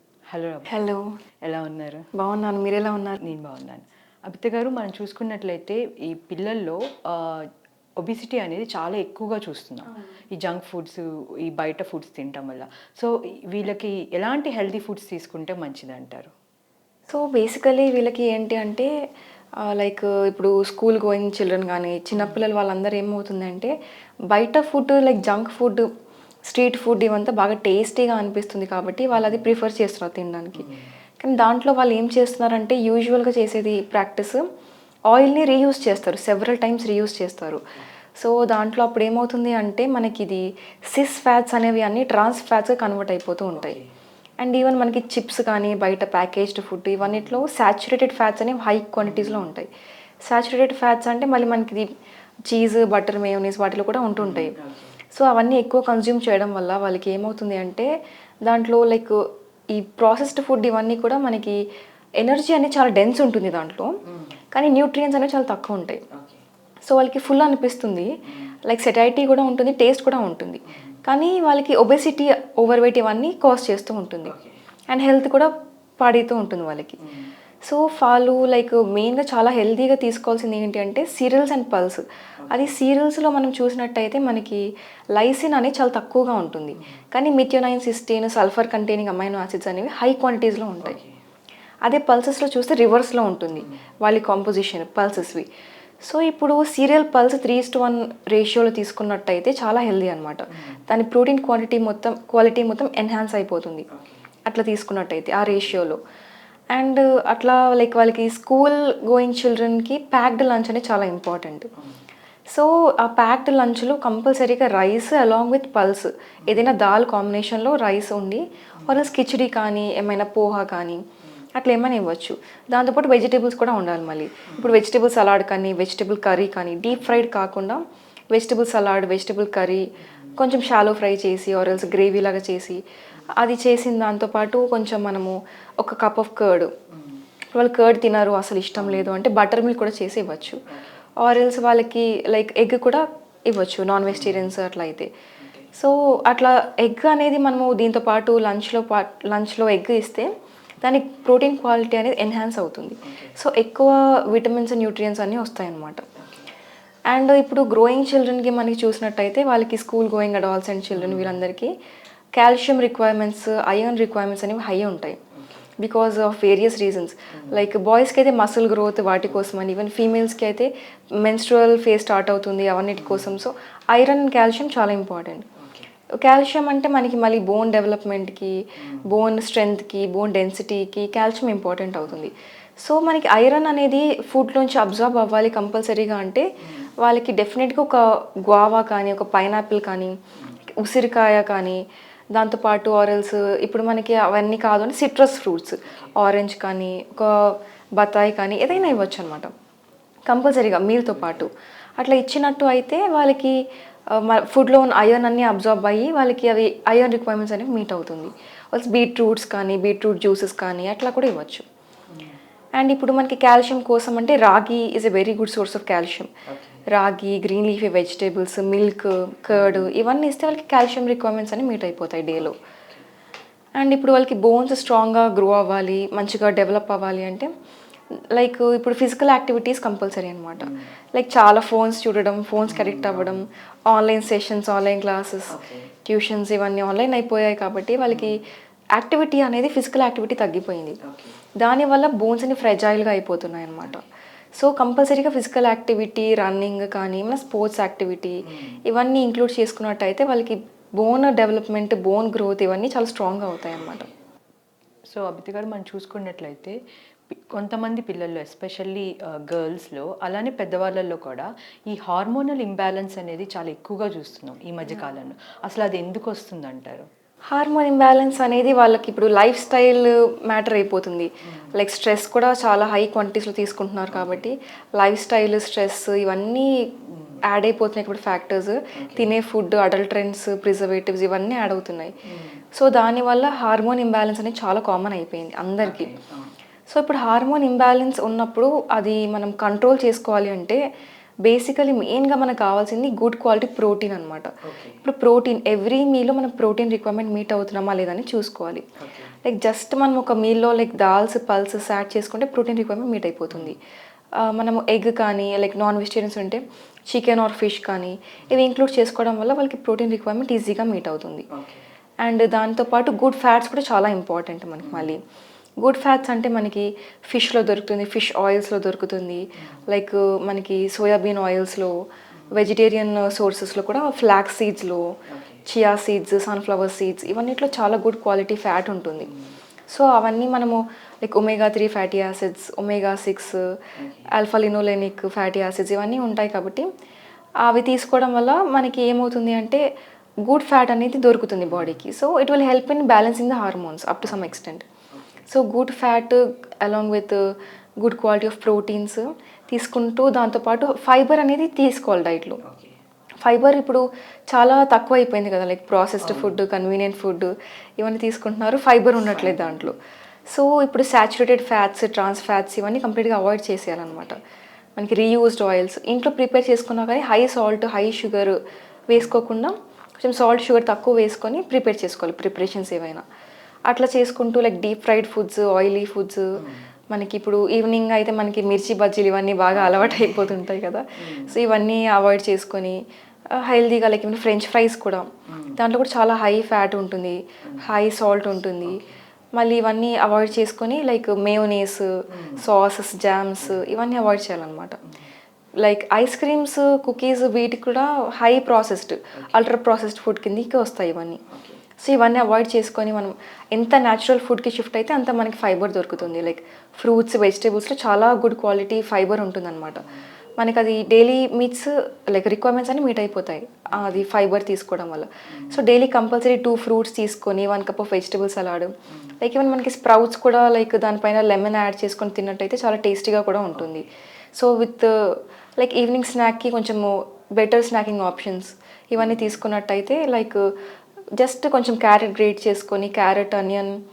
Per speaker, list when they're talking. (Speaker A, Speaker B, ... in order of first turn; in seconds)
Speaker A: 0.3-0.7, 1.4-2.0, 3.2-7.5, 8.0-16.3, 49.1-49.4, 54.2-54.9, 66.1-66.4, 90.9-91.1, 104.0-104.2, 175.6-175.8, 216.5-216.8, 232.9-233.4, 235.5-235.9, 241.1-241.4, 255.1-256.8, 257.3-267.1, 282.3-282.6, 285.8-286.5, 294.6-295.0, 299.0-299.3, 311.5-311.8, 325.3-325.6, 345.1-345.4, 352.6-352.9, 359.5-359.9, 379.8-380.5
Speaker B: 0.7-1.2, 2.1-3.2, 17.1-18.9, 19.6-23.7, 24.3-25.9, 26.5-30.7, 31.2-34.5, 35.1-37.6, 38.2-43.8, 44.4-49.7, 50.2-51.9, 52.5-54.5, 55.1-57.9, 58.4-61.6, 62.2-64.0, 64.5-66.0, 66.8-74.3, 74.9-77.0, 77.6-91.0, 91.8-95.5, 96.0-103.8, 104.5-106.0, 106.7-111.7, 112.5-121.0, 121.5-132.8, 133.4-136.7, 137.5-140.6, 141.2-145.1, 145.7-150.3, 150.8-156.1, 157.1-161.8, 162.3-165.2, 165.8-175.5, 176.2-186.5, 187.0-190.2, 190.8-199.5, 200.3-203.6, 204.1-211.7, 212.8-216.3, 216.9-222.6, 223.8-227.5, 228.3-238.4, 238.9-241.0, 241.6-244.0, 244.6-254.1, 267.5-282.1, 282.7-286.1, 286.9-290.8, 291.4-298.9, 299.4-303.8, 304.4-311.4, 312.2-315.2, 315.8-321.9, 322.5-329.3, 329.9-333.8, 334.3-336.9, 337.6-339.8, 340.4-344.8, 345.5-352.6, 353.4-360.0, 360.5-364.4, 365.0-368.6, 369.1-373.2, 373.9-383.0, 383.5-395.0, 395.8-401.4, 402.0-410.1, 410.6-430.7, 431.4-434.0